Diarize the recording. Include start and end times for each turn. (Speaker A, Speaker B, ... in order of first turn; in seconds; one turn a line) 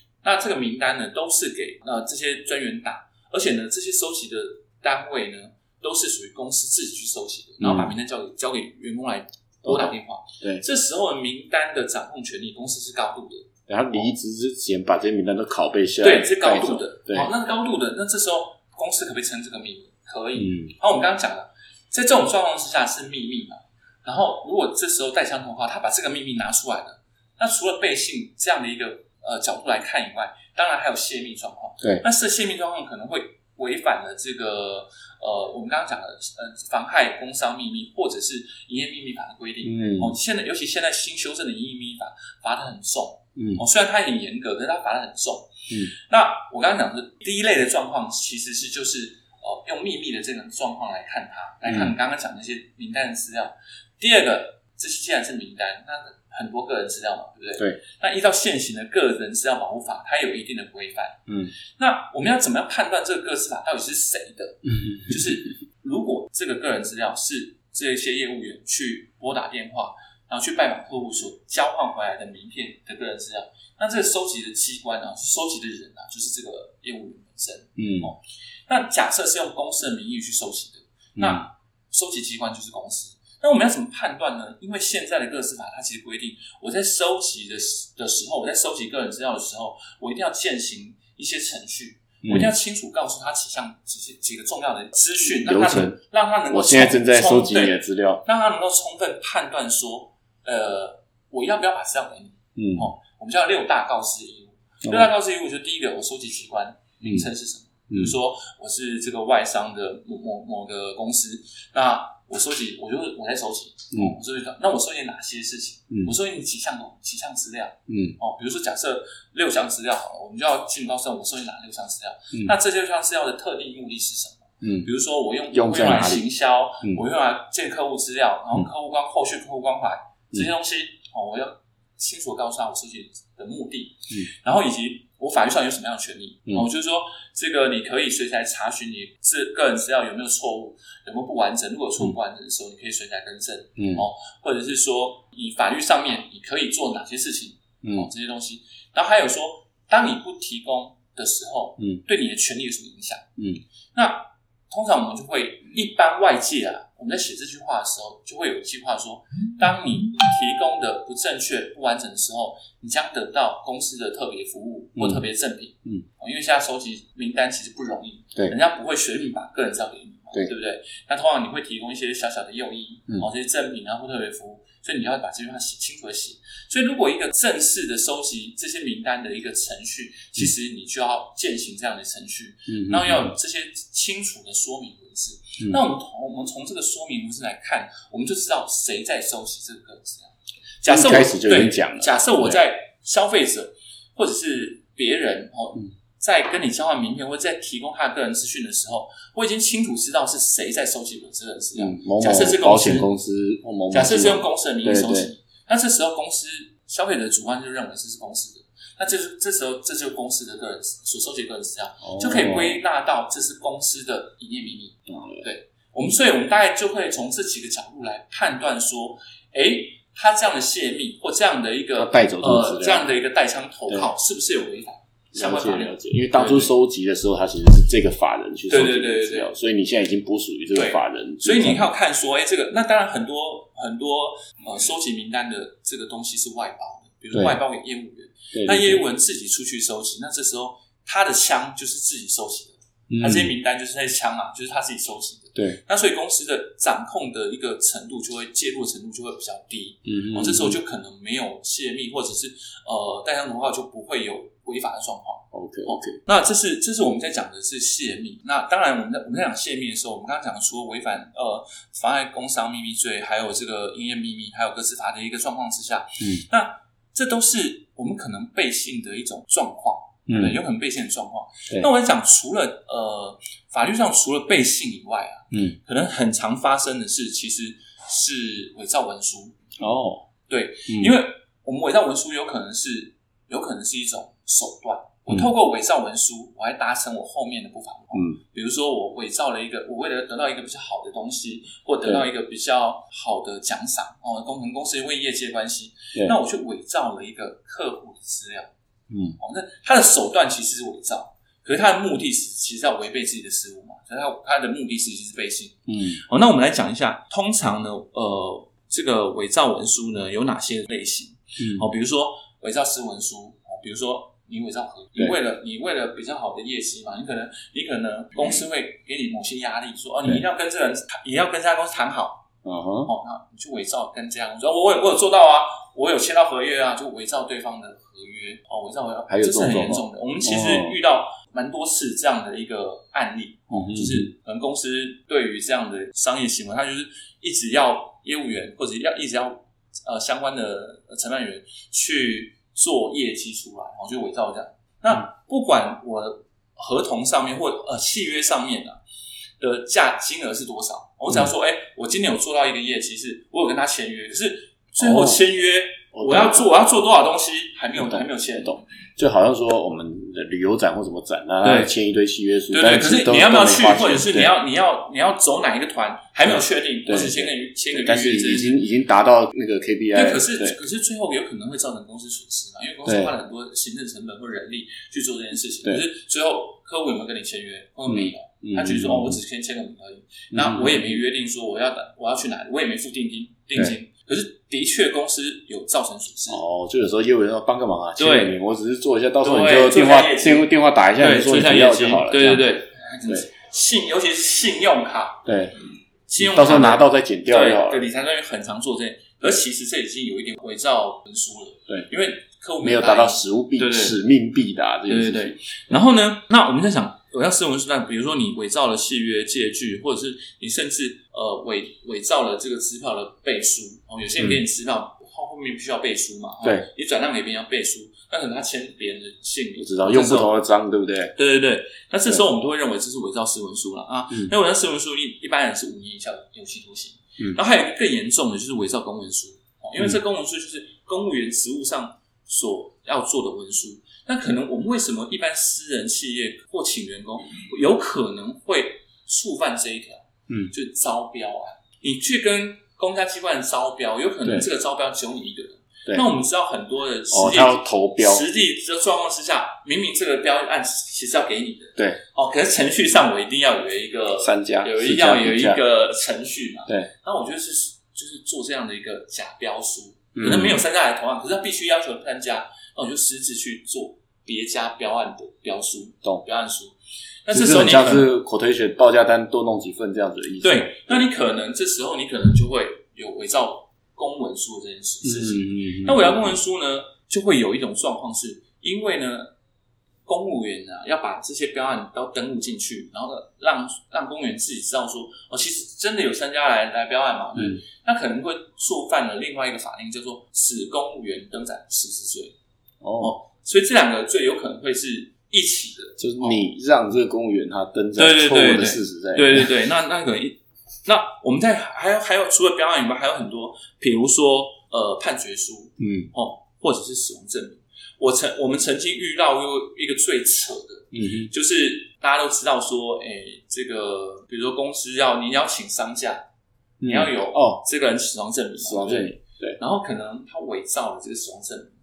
Speaker A: 0.2-13.5
Speaker B: 7.6-8.0
Speaker B: 9.6-10.6
Speaker B: 13.7-17.3
Speaker A: 16.0-61.2
Speaker B: 20.4-20.7
Speaker B: 39.6-40.1
Speaker B: 43.4-43.6
Speaker B: 51.6-51.9
Speaker B: 61.3-61.5
Speaker A: 61.8-153.3
Speaker B: 64.6-65.4
Speaker B: 77.8-78.1
Speaker B: 81.2-81.4
Speaker B: 92.2-92.5
Speaker B: 95.4-98.2
Speaker B: 102.5-102.9
Speaker B: 104.8-105.1
Speaker B: 107.9-108.1
Speaker B: 117.9-118.2
Speaker B: 124.6-124.9
Speaker B: 125.5-126.2
Speaker B: 143.8-144.1
Speaker B: 147.8-148.1
Speaker B: 153.4-153.6
Speaker A: 153.9-203.1
Speaker B: 164.9-165.2
Speaker B: 182.7-183.3
Speaker B: 190.8-192.6
Speaker B: 201.8-205.3
Speaker A: 203.9-226.7
Speaker B: 212.0-212.8
Speaker B: 215.1-215.4
Speaker B: 222.0-223.1
Speaker B: 225.3-231.9
Speaker A: 228.7-229.5
Speaker A: 230.7-279.5
Speaker B: 237.3-237.6
Speaker B: 238.5-239.0
Speaker B: 243.1-243.5
Speaker B: 245.5-245.8
Speaker B: 250.1-250.8
Speaker B: 255.5-256.2
Speaker B: 270.3-270.6
Speaker B: 275.5-275.8
Speaker B: 279.8-280.2
Speaker A: 280.5-298.7
Speaker B: 280.9-281.1
Speaker B: 288.1-288.4
Speaker B: 299.1-299.4
Speaker A: 299.4-322.4
Speaker B: 305.9-306.2
Speaker B: 311.6-311.9
Speaker B: 322.6-323.1
Speaker A: 323.1-349.0
Speaker B: 329.3-330.9
Speaker B: 333.7-334.3
Speaker A: 349.6-358.8
Speaker B: 355.0-355.4
Speaker B: 356.1-356.7
Speaker B: 358.0-364.5
Speaker A: 361.6-361.9
Speaker A: 362.7-368.8
Speaker B: 366.5-370.8
Speaker A: 370.1-386.6
Speaker B: 373.0-373.3
Speaker B: 378.1-379.4
Speaker B: 380.5-381.2
Speaker B: 386.5-393.4
Speaker A: 388.2-388.5
Speaker A: 389.4-395.4
Speaker B: 395.4-395.7
Speaker A: 396.3-404.1
Speaker B: 396.4-398.0
Speaker B: 402.8-405.8
Speaker A: 405.1-420.5
Speaker B: 419.8-421.3
Speaker A: 421.4-468.3
Speaker B: 447.3-448.4
Speaker B: 454.4-455.8
Speaker B: 460.3-460.8
Speaker B: 467.5-471.2
Speaker A: 470.6-479.5
Speaker B: 475.2-476.6
Speaker A: 480.2-492.6
Speaker B: 487.6-487.8
Speaker B: 493.0-493.4
Speaker A: 493.2-496.6
Speaker B: 496.2-499.7
Speaker A: 498.2-516.4
Speaker B: 506.0-506.3
Speaker B: 511.1-511.5
Speaker B: 517.0-517.8
Speaker A: 517.0-522.0
Speaker B: 518.8-519.8